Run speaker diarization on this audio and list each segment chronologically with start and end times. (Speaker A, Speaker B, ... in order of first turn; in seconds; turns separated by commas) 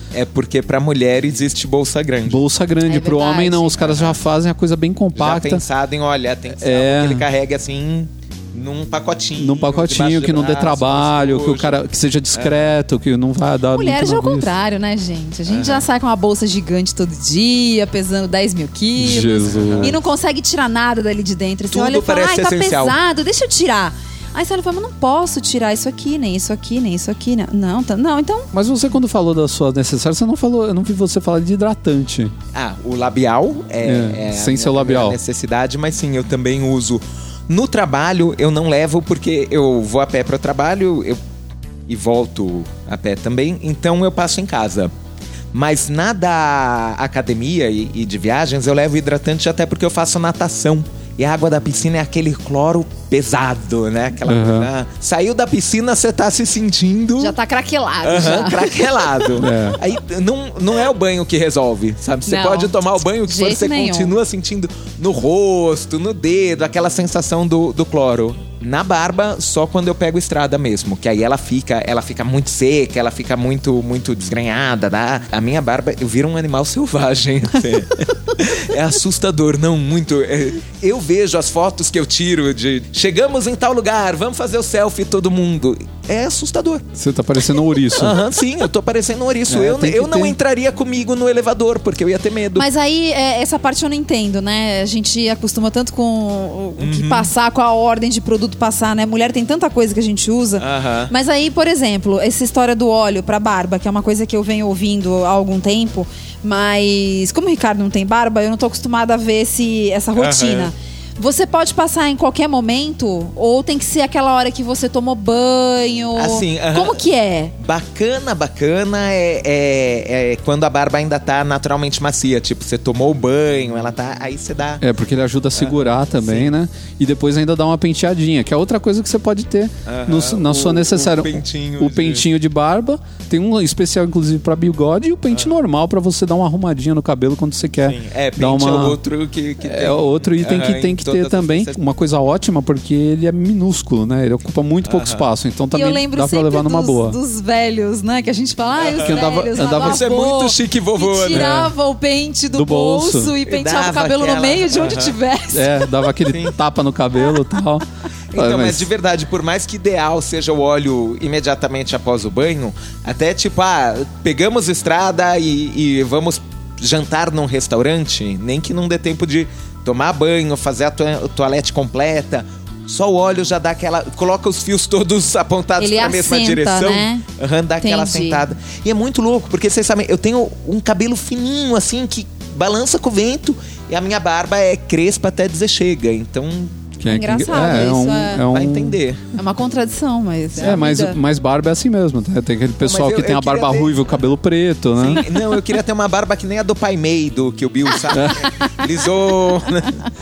Speaker A: 0.1-2.4, Speaker B: 2.2-5.6, Speaker C: 2.8-3.8, Speaker A: 3.8-4.2, Speaker A: 5.2-11.8, Speaker B: 6.6-7.2, Speaker B: 9.4-14.5, Speaker A: 12.3-12.7, Speaker C: 13.7-28.5, Speaker A: 15.5-15.9, Speaker B: 19.0-19.9, Speaker A: 19.4-19.9, Speaker A: 21.7-23.0, Speaker B: 28.5-32.3, Speaker A: 32.5-41.2, Speaker B: 33.8-35.2, Speaker A: 41.9-44.9, Speaker A: 45.5-57.3, Speaker B: 54.3-54.7, Speaker C: 57.2-59.3, Speaker A: 58.0-86.9, Speaker B: 59.4-59.8, Speaker C: 62.2-64.1, Speaker B: 87.0-88.2, Speaker A: 87.9-92.7, Speaker B: 89.5-90.4, Speaker C: 92.5-117.5, Speaker A: 96.8-97.3, Speaker A: 100.6-101.1, Speaker A: 110.2-110.7, Speaker A: 116.2-117.0, Speaker A: 117.6-124.8, Speaker B: 124.8-139.0, Speaker A: 125.5-126.5, Speaker A: 129.9-132.2, Speaker A: 137.8-141.8, Speaker B: 139.6-147.2, Speaker A: 144.9-145.2, Speaker C: 145.7-155.8, Speaker A: 148.8-151.5, Speaker B: 149.1-150.0, Speaker B: 151.3-151.7, Speaker B: 152.5-153.4, Speaker A: 153.4-155.2, Speaker B: 155.5-158.9, Speaker A: 156.2-156.5, Speaker A: 158.3-186.9, Speaker C: 175.8-177.2, Speaker C: 177.8-178.4, Speaker B: 187.0-189.0, Speaker C: 187.1-188.4, Speaker A: 188.4-189.2, Speaker C: 189.3-191.2, Speaker B: 190.6-195.2, Speaker A: 192.8-194.0, Speaker A: 194.9-200.0, Speaker B: 198.1-198.5